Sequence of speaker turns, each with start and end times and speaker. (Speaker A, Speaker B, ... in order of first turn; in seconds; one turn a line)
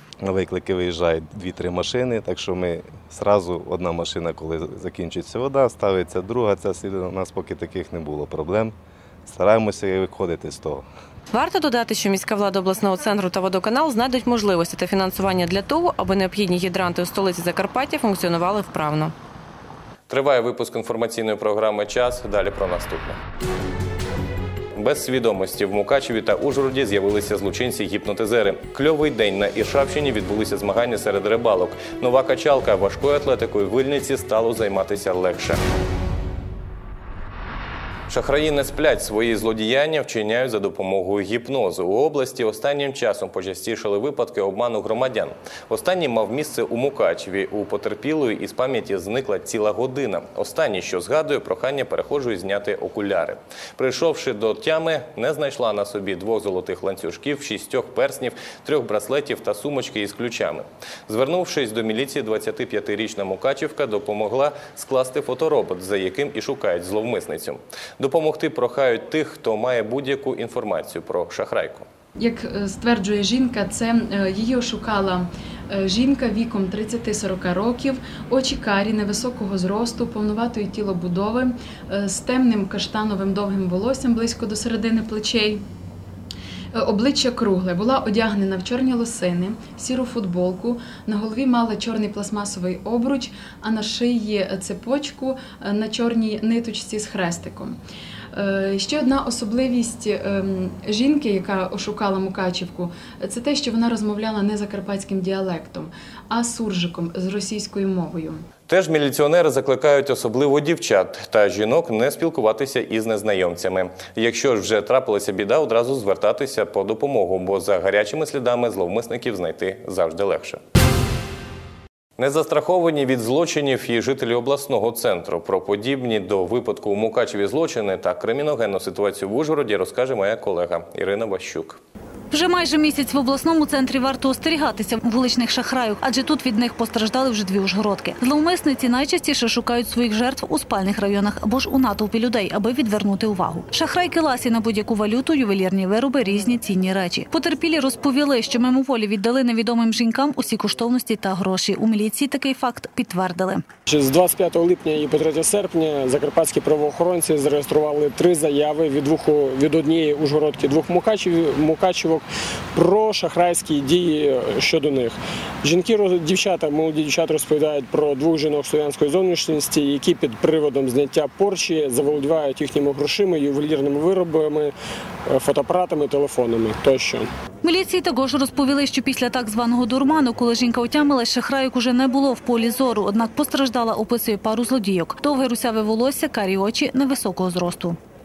Speaker A: 0.2-10.8
Speaker B: 11.3-19.1
Speaker C: 20.1-23.2
Speaker C: 24.7-35.6
Speaker C: 38.1-71.9
Speaker D: 72.2-85.6
Speaker D: 86.7-97.8
Speaker D: 98.3-108.4
Speaker C: 108.7-120.6
Speaker C: 122.2-131.8
Speaker E: 132.3-153.6
Speaker F: 153.9-174.7
Speaker F: 175.3-177.3
Speaker E: 177.6-188.0